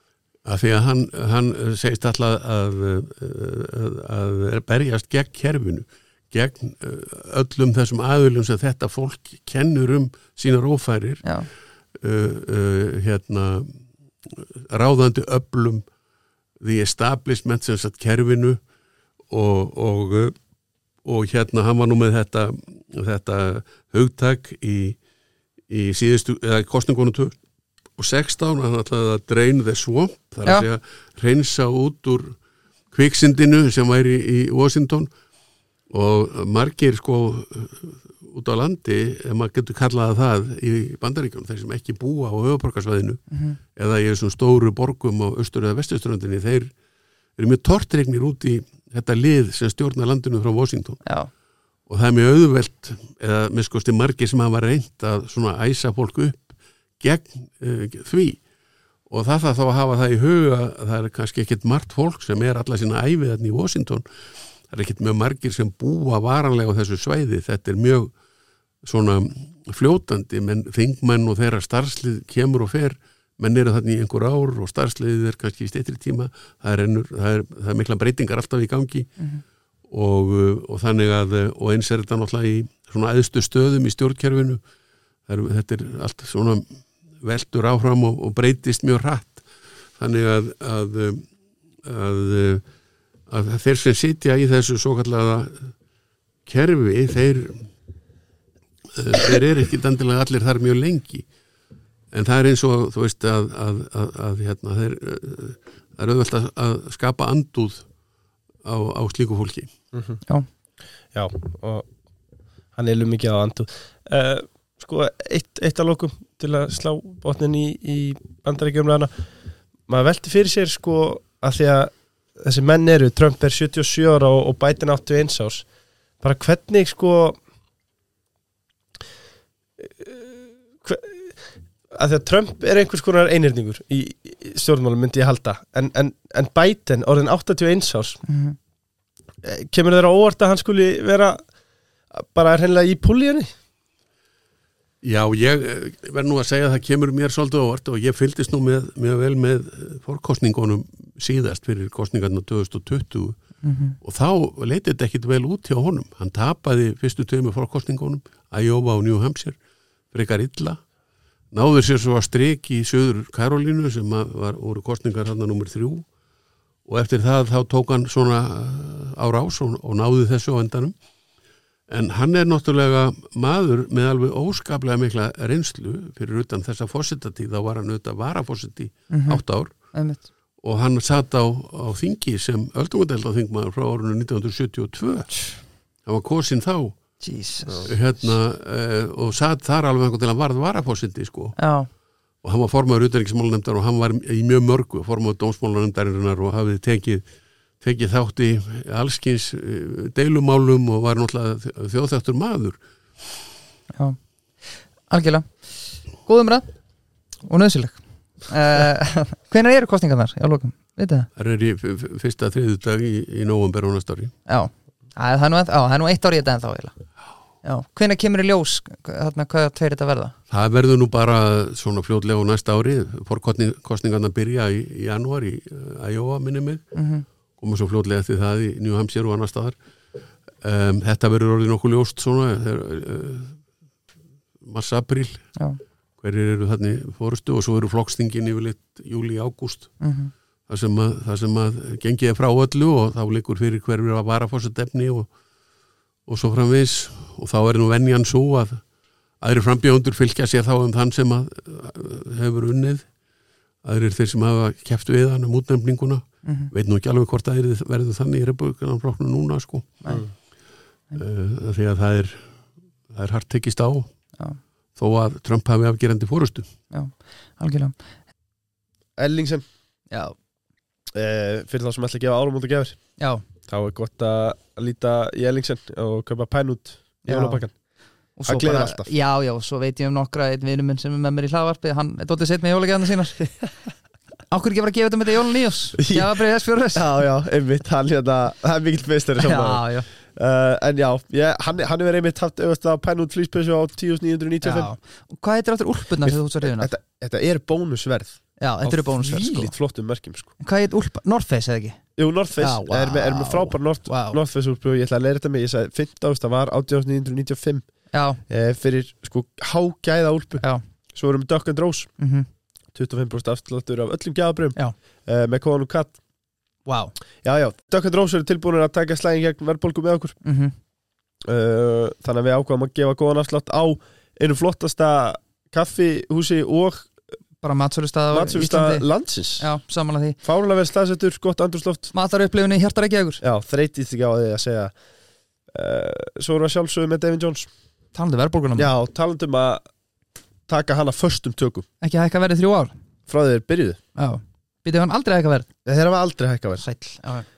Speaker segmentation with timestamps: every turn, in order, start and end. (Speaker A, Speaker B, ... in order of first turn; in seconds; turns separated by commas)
Speaker A: 0.4-11.2, Speaker A: 12.0-15.8, Speaker A: 16.6-18.6, Speaker A: 19.3-20.3, Speaker A: 21.0-25.0, Speaker A: 25.7-27.4, Speaker A: 28.0-32.4, Speaker A: 32.9-35.1, Speaker A: 35.9-43.2, Speaker B: 43.3-43.6, Speaker A: 43.8-46.7, Speaker A: 47.4-51.0, Speaker B: 51.0-51.3, Speaker A: 51.9-58.4, Speaker A: 59.1-64.0, Speaker A: 64.7-68.1, Speaker A: 68.8-79.1, Speaker A: 79.9-84.6, Speaker A: 85.3-86.6, Speaker A: 87.2-89.5, Speaker A: 90.0-91.3, Speaker A: 91.8-92.6, Speaker A: 93.3-95.7, Speaker A: 96.5-97.7, Speaker A: 98.9-101.3, Speaker A: 102.1-107.8, Speaker A: 108.6-109.7, Speaker C: 109.9-110.2, Speaker C: 111.1-111.9, Speaker C: 112.8-119.1, Speaker C: 119.9-125.6, Speaker C: 126.2-127.4, Speaker C: 129.8-131.3, Speaker C: 131.9-138.2, Speaker B: 138.3-138.6, Speaker C: 139.4-141.4, Speaker C: 142.1-143.5, Speaker A: 145.0-153.4, Speaker B: 153.6-154.0, Speaker A: 154.0-159.6, Speaker A: 160.1-160.8, Speaker A: 161.5-166.1, Speaker A: 166.8-170.9, Speaker A: 171.9-179.7, Speaker B: 179.1-179.4, Speaker B: 179.9-180.2, Speaker A: 180.6-185.4, Speaker A: 186.0-187.0, Speaker B: 187.2-187.9, Speaker A: 187.8-191.6, Speaker B: 191.6-191.9, Speaker A: 192.4-197.2, Speaker A: 197.8-202.8, Speaker B: 205.1-205.5, Speaker B: 206.2-206.7, Speaker B: 207.4-211.3, Speaker A: 211.3-214.3, Speaker B: 214.5-216.9, Speaker B: 217.6-220.3, Speaker A: 220.5-226.8, Speaker B: 226.9-227.2, Speaker A: 227.6-229.8, Speaker A: 230.6-233.6, Speaker A: 234.6-235.5, Speaker A: 236.2-239.9, Speaker B: 240.0-240.3, Speaker A: 240.7-245.3, Speaker A: 246.3-248.8, Speaker A: 249.4-253.1, Speaker A: 253.8-260.0, Speaker B: 256.4-256.7, Speaker C: 260.1-260.3, Speaker A: 261.1-262.5, Speaker A: 263.1-264.1, Speaker A: 264.9-266.7, Speaker B: 266.9-267.9, Speaker C: 269.2-269.6, Speaker C: 271.1-277.7, Speaker B: 277.2-277.6, Speaker B: 278.4-283.6, Speaker C: 278.4-279.1, Speaker B: 284.5-287.1, Speaker C: 286.0-294.9, Speaker B: 289.4-290.1, Speaker B: 294.6-296.9, Speaker C: 296.2-300.5, Speaker B: 298.6-299.7, Speaker B: 300.6-302.0, Speaker C: 302.2-307.8, Speaker B: 302.6-304.4, Speaker B: 308.1-308.4, Speaker C: 308.5-310.6, Speaker C: 311.1-312.1, Speaker B: 312.2-312.5, Speaker C: 312.9-316.2, Speaker B: 316.9-317.1, Speaker C: 317.4-320.4, Speaker B: 320.4-320.7, Speaker C: 321.4-327.1, Speaker B: 327.6-329.1, Speaker C: 328.3-329.7, Speaker B: 329.6-330.4, Speaker C: 330.4-332.1, Speaker B: 332.1-333.4, Speaker C: 333.4-334.9, Speaker C: 335.7-337.7, Speaker B: 338.1-338.9, Speaker C: 338.8-339.8, Speaker C: 340.7-341.9, Speaker B: 342.0-342.9, Speaker C: 343.3-344.0, Speaker B: 344.1-345.7, Speaker C: 345.8-346.8, Speaker B: 346.8-347.4